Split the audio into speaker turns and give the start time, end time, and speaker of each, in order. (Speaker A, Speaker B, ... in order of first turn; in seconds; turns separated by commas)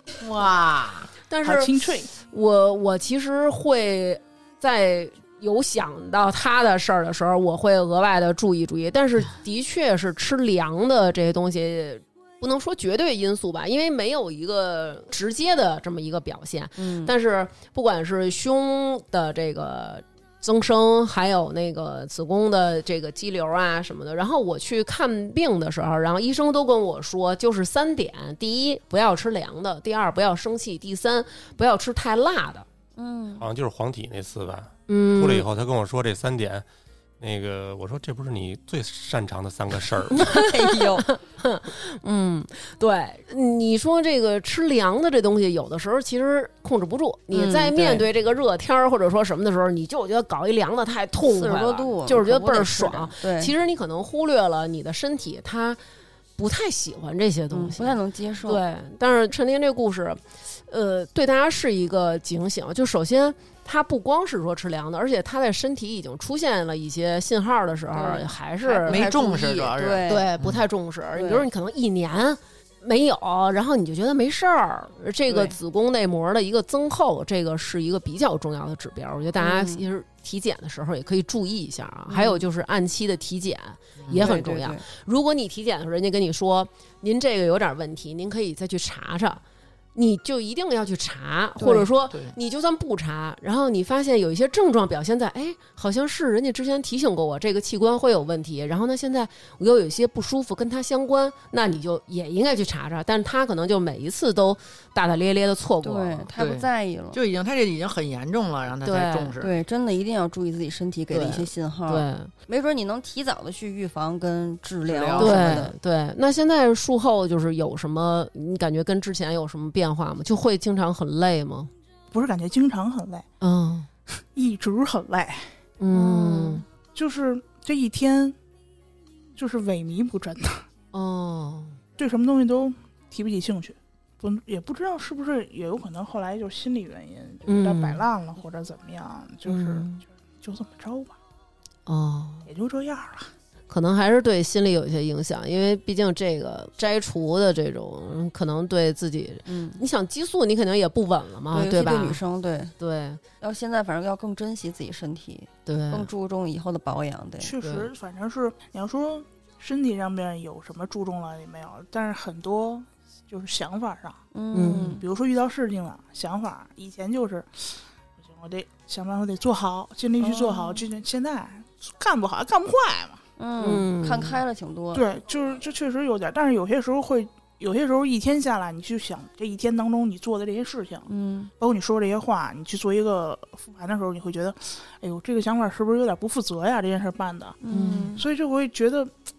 Speaker A: 0.2-1.1, Speaker B: 1.3-32.6, Speaker C: 1.4-2.1, Speaker D: 16.8-17.1, Speaker D: 33.0-33.4, Speaker E: 33.4-36.6, Speaker B: 34.9-35.5, Speaker E: 37.2-40.3, Speaker D: 40.2-41.1, Speaker B: 41.0-55.8, Speaker D: 47.3-48.1, Speaker D: 51.2-53.5, Speaker B: 56.4-69.1, Speaker D: 57.5-58.6, Speaker D: 67.9-70.3, Speaker A: 68.9-70.6, Speaker B: 70.1-89.4, Speaker D: 71.1-71.5, Speaker D: 75.3-75.5, Speaker D: 79.4-79.8, Speaker D: 82.1-82.4, Speaker A: 84.0-84.3, Speaker D: 84.2-84.8, Speaker B: 89.9-106.3, Speaker D: 91.6-91.9, Speaker D: 105.8-107.2, Speaker A: 106.4-109.5, Speaker B: 108.8-109.3, Speaker D: 109.4-115.7, Speaker B: 111.1-112.3, Speaker A: 114.8-115.6, Speaker B: 115.2-121.7, Speaker C: 122.1-123.3, Speaker B: 123.4-123.9, Speaker C: 124.2-125.5, Speaker B: 125.8-126.6, Speaker D: 125.9-126.6, Speaker C: 126.8-128.3, Speaker C: 129.3-130.7, Speaker B: 130.9-131.8, Speaker C: 132.0-141.2, Speaker B: 137.4-138.0, Speaker B: 139.4-140.0, Speaker B: 141.8-142.4, Speaker C: 142.4-143.3, Speaker B: 143.7-152.2, Speaker D: 149.5-149.8, Speaker D: 151.5-152.7, Speaker B: 152.8-153.2, Speaker D: 153.4-157.5, Speaker B: 155.7-156.1, Speaker C: 157.4-173.2, Speaker B: 157.6-157.9, Speaker D: 164.3-165.0, Speaker B: 164.5-164.9, Speaker D: 170.2-170.8, Speaker D: 173.4-175.0, Speaker B: 173.6-174.4, Speaker C: 174.9-181.1, Speaker D: 181.1-181.5, Speaker C: 181.6-187.6, Speaker D: 187.6-188.2, Speaker B: 187.7-188.1, Speaker C: 188.1-189.1